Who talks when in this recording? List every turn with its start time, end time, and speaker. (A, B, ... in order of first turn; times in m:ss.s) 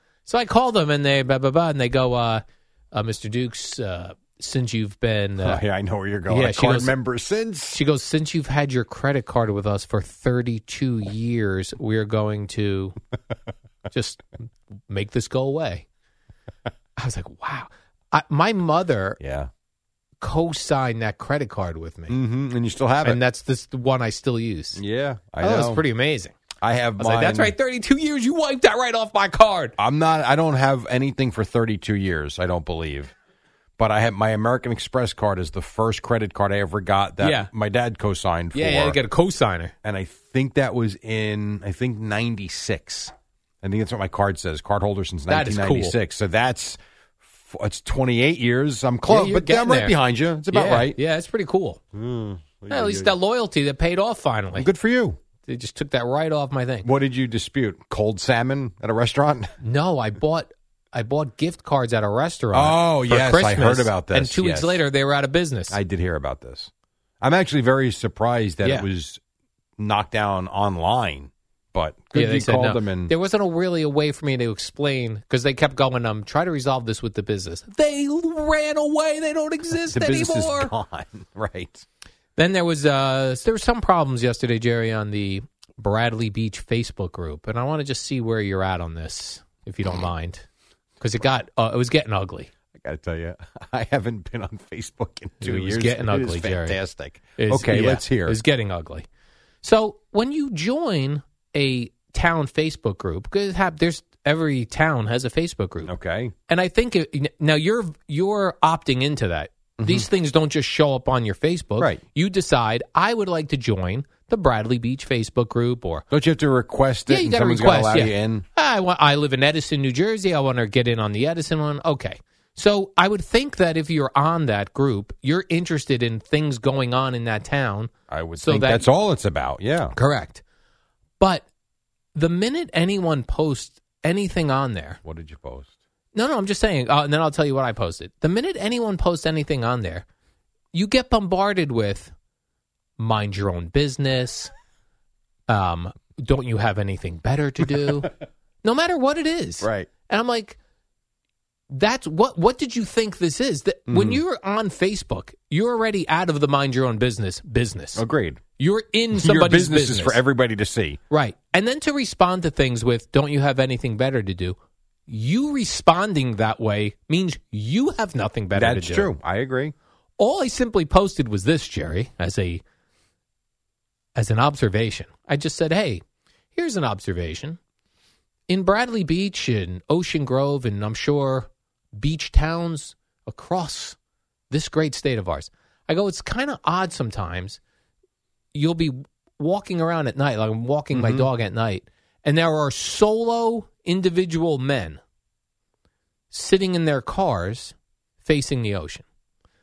0:00.3-0:05.6 A
0:05.4-0:07.8 B
0:06.3-0:07.0 A
0:07.7-0:13.0 A
0:13.9-0:14.2 A
0:14.9-0:15.9 A
0:17.0-0:19.2 A
0:19.2-0:19.5 B
0:20.2-0:22.2 A
0:22.1-0:23.2 B
0:23.0-0:24.8 A
0:24.8-0:25.8 B
0:25.4-0:26.4 A
0:26.6-0:27.5 B
0:27.0-0:29.8 A
0:29.8-0:33.1 B
0:33.8-0:39.0 B
0:37.2-0:37.5 A
0:38.5-0:39.7 A
0:39.8-0:46.8 B
0:45.3-0:46.0 A
0:47.4-0:51.0 B
0:49.1-0:50.0 A
0:50.5-0:51.8 A
0:51.9-0:53.1 B
0:52.7-0:54.7 A
0:54.6-0:55.2 B
0:55.4-0:56.9 A
0:56.8-0:59.5 B
0:59.6-1:05.8 A
1:02.5-1:04.8 B
1:05.7-1:06.7 B
1:07.2-1:09.2 B
1:09.8-1:13.1 B
1:12.1-1:20.7 A
1:19.9-1:21.8 B
1:22.4-1:30.5 A
1:31.0-1:32.5 A
1:32.7-1:38.4 B
1:35.4-1:36.8 A
1:37.4-1:39.1 A
1:39.6-1:45.9 A
1:45.8-1:46.3 B
1:46.5-1:56.0 A
1:49.8-1:50.1 B
1:56.1-1:58.4 B
1:57.1-2:08.9 A
2:08.1-2:09.9 B
2:10.0-2:10.4 A
2:11.2-2:11.5 A
2:12.2-2:15.0 A
2:15.0-2:15.7 B
2:16.1-2:20.1 A
2:20.7-2:22.1 A
2:23.0-2:24.5 A
2:25.5-2:28.1 A
2:28.6-2:30.6 A
2:29.6-2:29.9 B
2:31.7-2:38.0 A
2:33.9-2:34.2 B
2:38.0-2:38.4 B
2:38.6-2:40.2 A
2:39.1-2:41.0 B
2:41.1-2:44.6 A
2:45.1-2:49.1 A
2:48.6-2:49.7 B
2:50.2-2:52.6 A
2:54.2-2:56.0 A
2:56.6-2:57.6 A
2:58.5-3:04.0 A
3:04.5-3:07.6 A
3:08.5-3:15.0 A
3:10.9-3:11.3 B
3:16.3-3:19.0 A